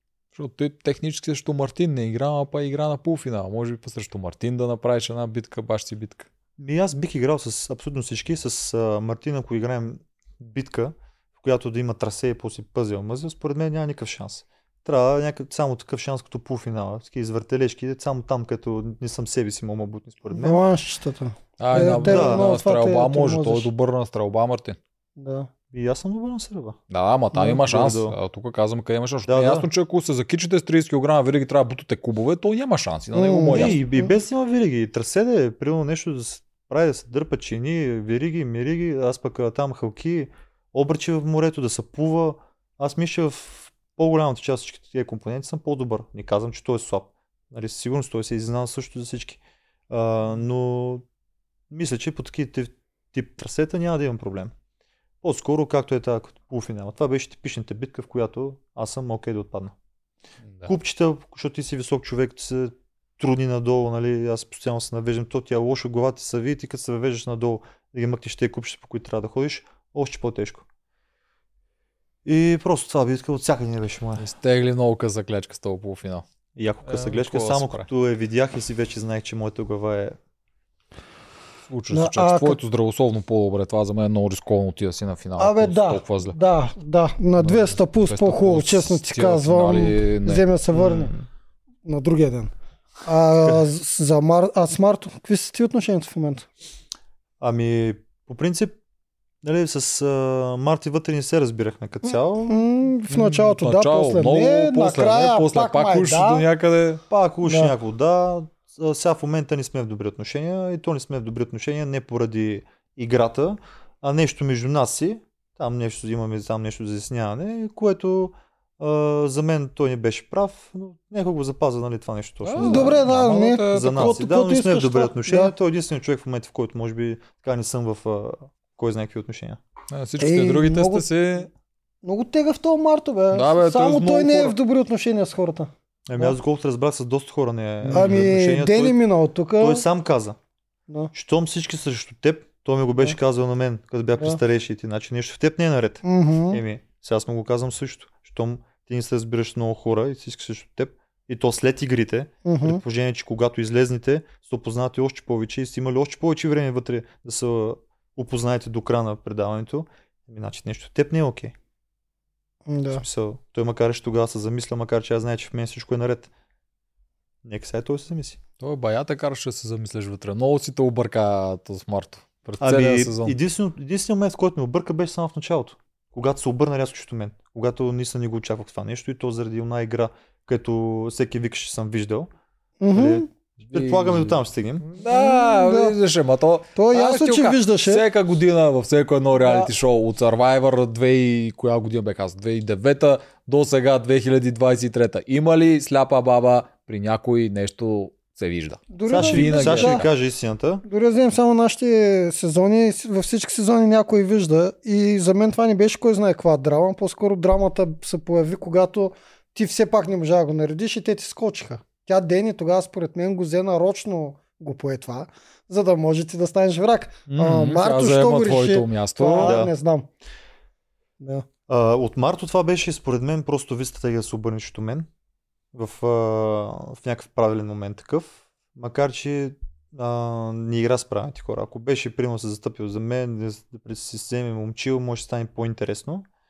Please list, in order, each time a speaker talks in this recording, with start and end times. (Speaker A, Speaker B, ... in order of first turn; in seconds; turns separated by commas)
Speaker A: 0.3-6.3, Speaker B: 6.6-20.6, Speaker C: 20.3-23.7, Speaker A: 21.6-24.8, Speaker B: 22.0-22.5, Speaker C: 25.2-25.5, Speaker B: 25.7-26.8, Speaker A: 26.9-33.8, Speaker B: 27.6-28.1, Speaker B: 29.2-29.7, Speaker C: 33.1-34.1, Speaker B: 33.5-51.0, Speaker B: 51.7-54.5, Speaker B: 55.2-59.7, Speaker B: 60.6-70.6, Speaker B: 72.2-74.3, Speaker A: 74.2-76.2, Speaker B: 76.5-80.2, Speaker A: 76.8-77.9, Speaker A: 81.7-86.3, Speaker C: 81.9-82.6, Speaker C: 85.4-91.1, Speaker A: 87.4-90.4, Speaker B: 90.7-91.3, Speaker C: 91.8-92.5, Speaker C: 93.0-96.5, Speaker B: 97.4-98.8, Speaker B: 99.4-102.5, Speaker C: 102.4-106.4, Speaker A: 103.1-107.0, Speaker B: 107.1-123.1, Speaker C: 107.4-107.7, Speaker A: 122.4-124.2, Speaker C: 122.6-125.5, Speaker B: 123.7-129.6, Speaker A: 129.9-131.5, Speaker C: 130.2-131.1, Speaker C: 132.0-136.3, Speaker A: 133.3-134.5, Speaker B: 136.1-139.0, Speaker C: 137.9-139.8, Speaker A: 137.9-138.3, Speaker B: 139.6-140.4, Speaker B: 141.1-161.5, Speaker C: 146.0-146.6, Speaker C: 152.4-152.8, Speaker C: 162.7-163.0, Speaker B: 162.9-166.3, Speaker B: 167.4-168.4, Speaker A: 168.6-173.3, Speaker B: 172.6-182.3, Speaker C: 182.8-183.2, Speaker B: 182.9-184.8, Speaker A: 183.6-200.1, Speaker C: 185.0-185.9, Speaker C: 186.8-188.0, Speaker C: 198.9-200.1, Speaker B: 199.1-200.8, Speaker C: 200.9-220.1, Speaker A: 217.3-219.6, Speaker B: 219.4-219.7, Speaker C: 221.2-221.4, Speaker B: 221.7-225.1, Speaker B: 225.7-236.2